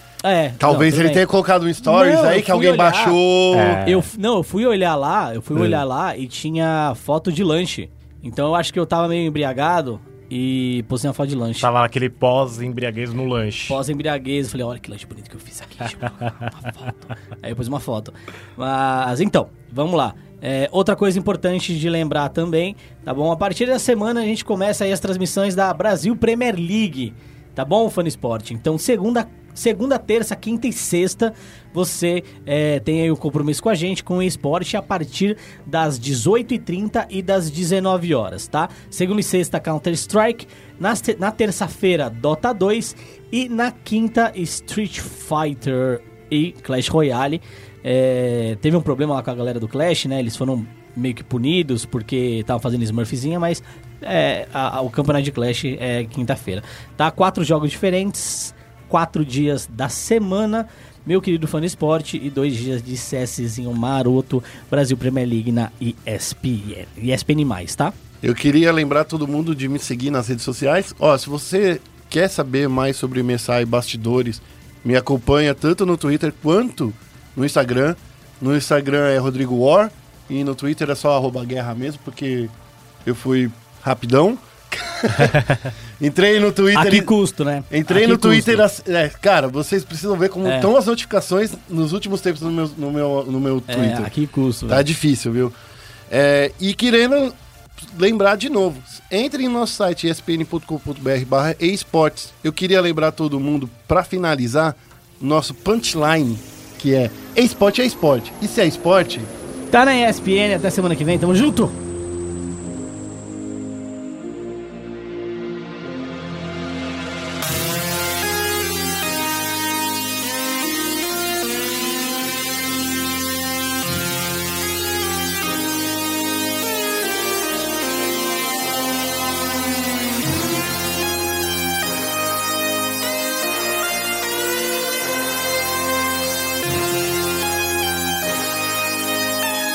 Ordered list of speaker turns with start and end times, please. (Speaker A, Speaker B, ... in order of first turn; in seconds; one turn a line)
Speaker A: 0.2-1.2
Speaker B: 0.6-3.8
Speaker A: 1.8-3.2
Speaker C: 3.5-4.1
Speaker A: 3.9-11.7
Speaker C: 11.6-13.8
Speaker A: 13.7-67.9
Speaker B: 68.2-82.5
Speaker B: 83.0-87.1
Speaker A: 86.7-88.6
Speaker B: 87.7-94.1
Speaker A: 90.4-90.7
Speaker A: 93.7-94.8
Speaker B: 94.7-95.5
Speaker B: 96.1-97.3
Speaker B: 97.9-109.3
Speaker A: 109.7-111.8